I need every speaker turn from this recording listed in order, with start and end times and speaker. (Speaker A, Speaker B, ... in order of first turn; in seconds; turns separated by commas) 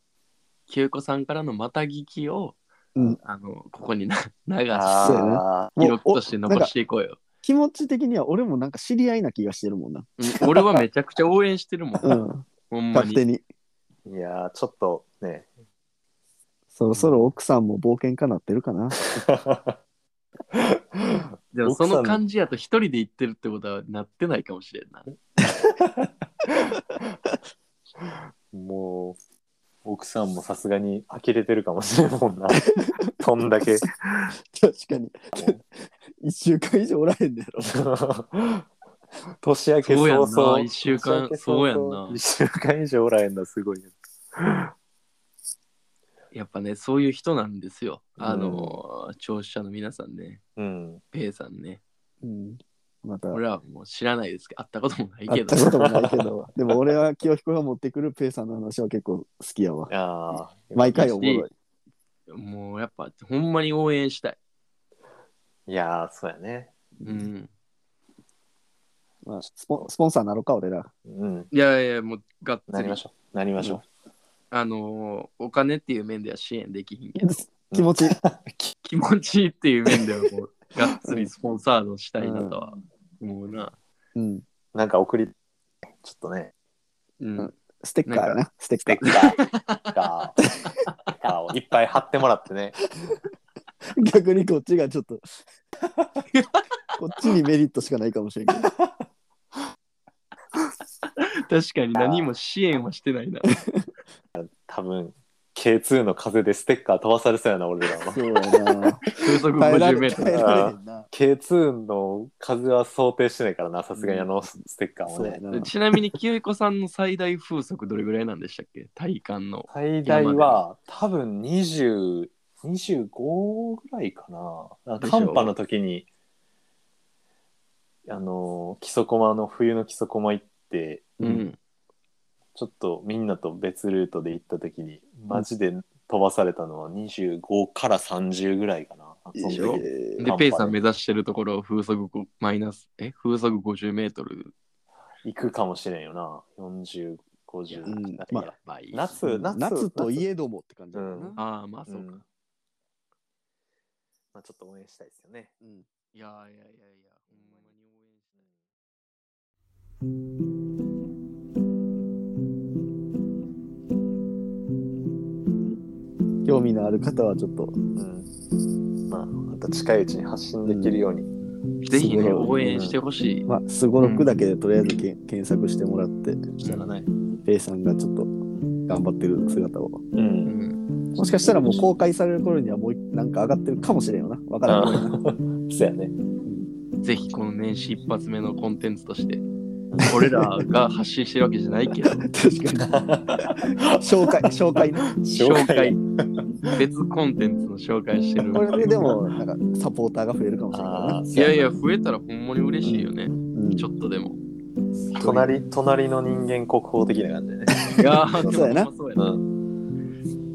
Speaker A: 0.7-5.2, Speaker B: 4.7-5.7, Speaker C: 5.0-6.7, Speaker A: 5.8-7.2, Speaker C: 7.4-10.8, Speaker A: 10.2-13.2, Speaker C: 12.0-13.4, Speaker B: 14.1-15.5, Speaker C: 16.7-19.2, Speaker B: 19.0-19.7, Speaker B: 20.5-22.2, Speaker A: 21.5-25.1, Speaker B: 25.4-26.8, Speaker B: 28.5-29.2, Speaker B: 29.8-34.3, Speaker C: 34.5-35.6, Speaker C: 36.2-37.7, Speaker B: 37.6-38.6, Speaker B: 39.4-44.7, Speaker A: 39.8-42.2, Speaker A: 46.3-50.4, Speaker B: 48.2-48.7, Speaker B: 50.6-51.0, Speaker A: 51.1-51.8, Speaker C: 52.2-53.4, Speaker A: 53.3-55.8, Speaker C: 55.3-59.9, Speaker B: 55.7-56.3, Speaker B: 59.9-61.0, Speaker C: 60.7-61.5, Speaker A: 60.9-61.5, Speaker A: 62.3-64.4, Speaker B: 65.7-66.7, Speaker A: 67.0-67.5, Speaker C: 69.2-70.9, Speaker B: 71.1-71.5, Speaker A: 71.5-73.0, Speaker B: 72.7-73.8, Speaker A: 74.5-77.2, Speaker C: 77.2-78.2, Speaker B: 77.7-78.7, Speaker A: 78.8-83.7, Speaker C: 82.2-82.5, Speaker C: 84.2-84.4, Speaker B: 84.7-85.3, Speaker B: 86.0-86.5, Speaker A: 87.2-87.5, Speaker C: 87.4-89.2, Speaker A: 88.0-88.4, Speaker B: 88.8-90.4, Speaker A: 89.0-89.9, Speaker B: 91.2-92.8, Speaker C: 93.9-95.3, Speaker A: 96.3-96.6, Speaker C: 97.0-98.7, Speaker A: 101.2-103.5, Speaker B: 101.9-102.3, Speaker C: 103.5-103.8, Speaker B: 104.3-108.2, Speaker C: 108.1-111.1, Speaker A: 109.1-110.5, Speaker B: 110.3-115.4, Speaker C: 115.1-115.7, Speaker A: 115.5-120.6, Speaker B: 119.7-126.1, Speaker A: 125.0-125.5, Speaker B: 128.1-131.4, Speaker A: 131.2-131.6, Speaker B: 132.5-140.8, Speaker C: 139.3-140.3, Speaker A: 139.5-144.5, Speaker B: 145.2-150.2, Speaker A: 147.7-149.1, Speaker C: 147.9-148.5, Speaker C: 149.2-151.4, Speaker B: 150.9-151.4, Speaker A: 151.4-152.2, Speaker B: 151.9-152.2, Speaker B: 154.3-155.5, Speaker C: 155.6-155.8, Speaker A: 156.1-158.4, Speaker C: 166.4-167.8, Speaker B: 167.9-168.3, Speaker B: 169.1-171.3, Speaker C: 170.6-171.0, Speaker A: 171.8-173.4, Speaker C: 171.9-172.6, Speaker B: 172.7-172.9, Speaker C: 173.5-176.5, Speaker A: 174.0-174.4, Speaker B: 176.6-177.1, Speaker A: 176.6-176.9, Speaker C: 177.4-178.3, Speaker C: 178.9-180.0, Speaker B: 180.1-180.6, Speaker A: 180.4-180.8, Speaker B: 181.1-181.8, Speaker C: 181.2-185.1, Speaker B: 184.7-186.1, Speaker A: 187.0-189.4, Speaker C: 190.0-190.7, Speaker A: 190.1-192.2, Speaker C: 192.2-195.1, Speaker B: 192.8-194.0, Speaker B: 195.1-196.0, Speaker A: 195.3-196.0, Speaker A: 196.7-199.1, Speaker C: 198.5-201.2, Speaker B: 200.7-201.7, Speaker A: 201.3-204.4, Speaker C: 202.8-203.8, Speaker B: 205.1-207.9, Speaker A: 205.2-205.5, Speaker A: 207.9-209.2, Speaker C: 208.3-208.9, Speaker B: 209.2-209.4